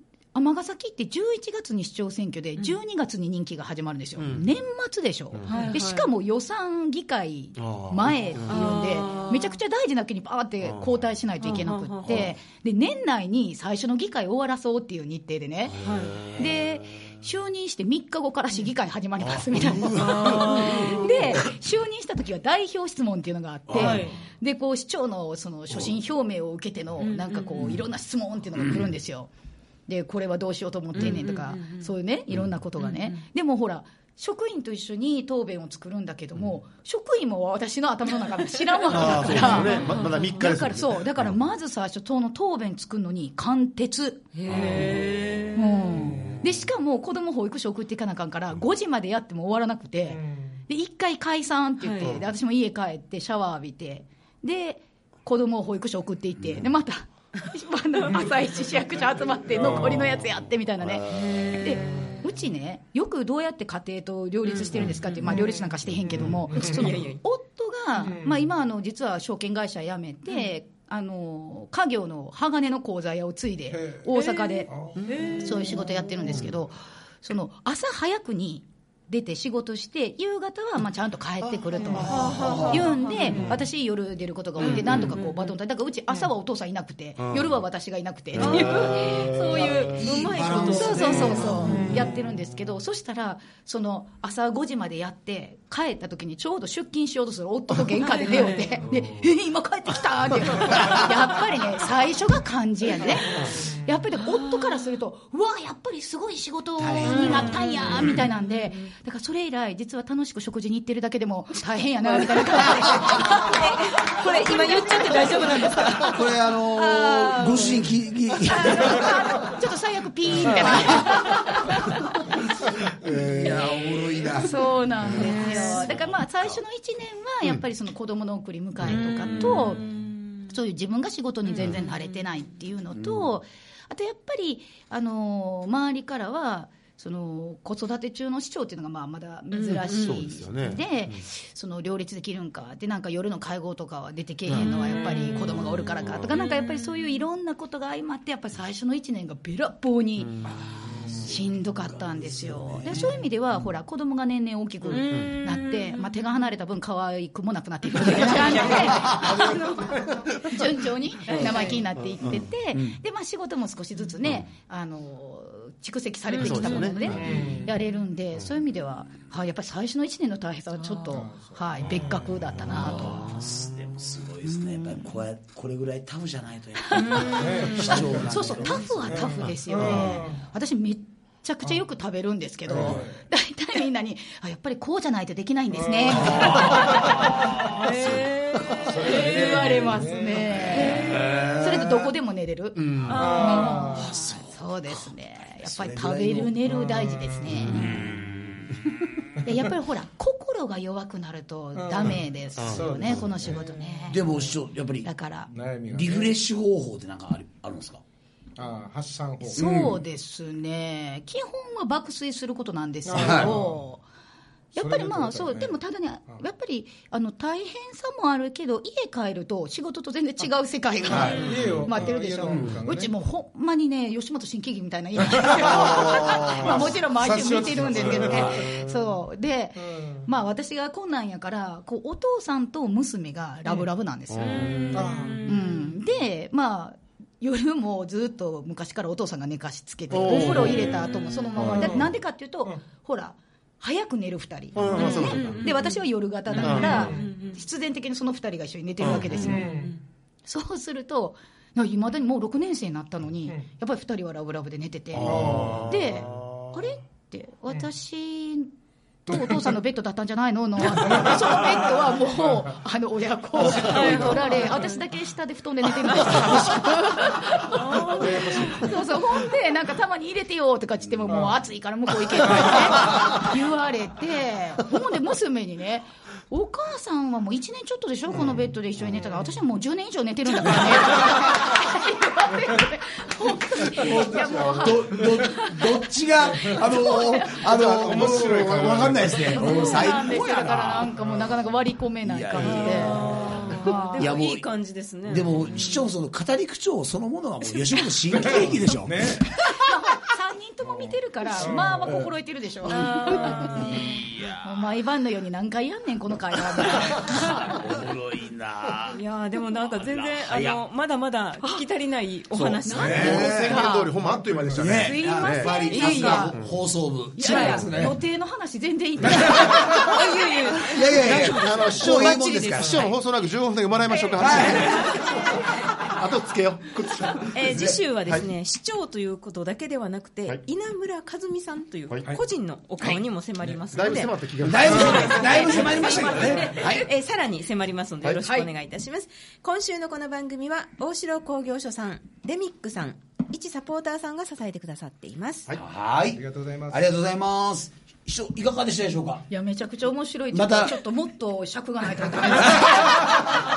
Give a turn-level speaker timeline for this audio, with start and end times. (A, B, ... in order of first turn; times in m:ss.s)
0:00.3-0:29.3 A
0:04.2-0:04.4 B
0:05.3-0:05.7 B
0:05.4-0:06.1 C
0:07.6-0:08.5 B
0:08.5-0:09.6 C
0:11.4-0:12.1 C
0:15.8-0:16.2 C
0:16.2-0:16.5 B
0:19.6-0:21.4 D
0:20.0-0:21.1 C
0:23.7-0:24.2 C
0:23.7-0:24.1 D
0:27.0-0:27.7 C
0:29.9-0:45.0 A
0:30.9-0:31.9 C
0:32.8-0:33.2 C
0:38.7-0:40.4 C
0:38.9-0:41.4 B
0:44.3-0:46.0 C
0:44.5-0:45.0 B
0:45.5-1:14.7 A
0:46.0-0:46.3 B
0:50.1-0:50.5 E
0:51.8-0:52.2 C
0:59.6-1:00.0 E
1:00.8-1:01.3 B
1:01.1-1:02.2 C
1:04.5-1:05.7 C
1:06.2-1:07.2 C
1:06.5-1:06.9 E
1:08.1-1:08.4 E
1:13.7-1:14.0 E
1:14.1-1:15.8 C
1:14.7-1:15.0 E
1:15.0-1:15.3 B
1:15.3-1:57.9 A
1:21.4-1:22.7 B
1:21.9-1:23.6 C
1:22.1-1:22.9 D
1:24.6-1:25.5 C
1:24.7-1:25.2 D
1:27.2-1:27.5 B
1:28.4-1:32.1 D
1:28.4-1:31.9 C
1:28.4-1:29.8 B
1:38.0-1:38.8 C
1:44.2-1:44.9 C
1:46.8-1:48.2 D
1:47.0-1:48.9 C
1:52.2-1:56.2 C
1:56.0-1:59.2 D
1:58.4-2:02.2 A
2:00.3-2:01.2 D
2:02.9-2:06.6 D
2:04.3-2:09.9 A
2:05.0-2:05.9 C
2:08.9-2:10.4 C
2:09.4-2:09.7 D
2:10.4-2:30.4 A
2:11.5-2:12.0 C
2:12.9-2:13.3 D
2:19.5-2:20.2 C
2:19.9-2:21.2 B
2:24.5-2:24.8 B
2:24.5-2:25.7 C
2:25.3-2:26.2 B
2:26.3-2:27.0 C
2:30.2-2:30.5 B
2:30.9-2:33.2 D
2:31.2-2:53.4 A
2:34.9-2:36.3 C
2:34.9-2:35.3 B
2:38.0-2:39.6 C
2:38.9-2:39.4 D
2:40.0-2:40.3 B
2:41.2-2:41.8 C
2:41.4-2:42.4 B
2:46.3-2:47.8 C
2:46.4-2:47.6 B
2:47.1-2:47.7 E
2:50.8-2:51.2 C
2:51.1-2:52.4 E
2:52.6-3:00.2 D
2:52.9-2:53.5 B
2:56.8-3:07.2 A
2:56.9-2:58.2 C
2:57.3-2:58.5 E
2:59.1-3:00.4 E
3:02.7-3:03.2 E
3:02.7-3:03.0 D
3:05.8-3:07.7 E
3:06.1-3:09.3 D
3:06.5-3:06.8 C
3:07.6-3:09.7 C
3:08.8-3:10.5 E
3:09.0-3:18.0 A
3:10.7-3:11.5 C
3:10.7-3:12.0 D
3:12.7-3:13.3 B
3:13.1-3:14.1 C
3:13.1-3:14.2 E
3:13.9-3:16.8 D
3:16.8-3:17.4 E
3:17.4-3:18.8 D
3:17.5-3:18.3 B
3:19.4-3:24.2 A
3:21.7-3:23.6 E
3:22.6-3:23.2 B
3:24.1-3:25.1 D
3:25.0-3:25.5 A
3:25.5-3:26.3 E
3:25.9-3:28.0 D
3:28.6-3:29.6 E
3:29.4-3:34.0 A
3:29.5-3:30.0 D
3:33.1-3:33.8 E
3:33.2-3:33.5 D
3:34.7-4:09.8 A
3:34.8-3:35.7 E
3:41.1-3:41.5 D
3:41.1-3:43.1 E
3:45.3-3:48.8 E
3:45.8-3:46.9 B
3:49.8-3:50.3 E
3:54.3-3:55.0 B
3:54.4-3:55.7 C
3:54.9-3:55.6 E
4:00.1-4:02.1 B
4:01.6-4:02.1 E
4:04.7-4:05.7 B
4:04.9-4:07.6 C
4:06.6-4:07.1 B
4:06.6-4:07.2 E
4:09.0-4:09.6 B
4:09.4-4:10.0 E
4:09.6-4:10.0 C
4:10.5-4:18.7 A
4:15.1-4:16.8 B
4:15.2-4:15.9 E
4:19.2-4:46.0 A
4:19.3-4:19.7 E
4:20.9-4:21.7 E
4:23.7-4:25.0 C
4:26.1-4:26.7 C
4:27.6-4:29.0 C
4:43.9-4:51.1 D
4:44.0-4:45.3 E
4:46.6-4:47.6 A
4:47.6-4:49.3 B
4:47.8-4:50.0 E
4:49.4-4:54.3 A
4:52.2-4:54.7 D
4:52.6-4:56.0 C
4:55.2-4:59.7 D
4:58.4-4:59.5 E
4:59.6-5:07.7 A
5:00.9-5:02.3 E
5:02.8-5:04.1 C
5:03.7-5:04.8 D
5:06.8-5:09.2 D
5:09.1-5:13.6 C
5:09.8-5:10.8 D
5:12.5-5:13.9 D
5:12.8-5:14.1 A
5:13.0-5:15.8 B
5:14.2-5:15.0 E
5:14.7-5:18.1 D
5:14.8-5:16.7 A
5:15.8-5:16.5 C
5:16.5-5:16.8 B
5:17.3-5:20.9 A
5:17.4-5:17.8 C
5:17.6-5:18.2 E
5:19.6-5:23.2 C
5:20.8-5:23.0 D
5:21.1-5:28.4 B
5:24.1-5:25.6 C
5:24.4-5:25.3 D
5:27.5-5:45.7 C
5:33.9-5:36.1 B
5:34.6-5:37.1 D
5:34.8-5:35.2 E
5:36.2-5:37.0 A
5:38.4-5:38.7 A
5:45.7-5:49.4 D
5:46.3-5:47.0 E
5:49.5-5:53.5 A
5:50.5-5:51.0 D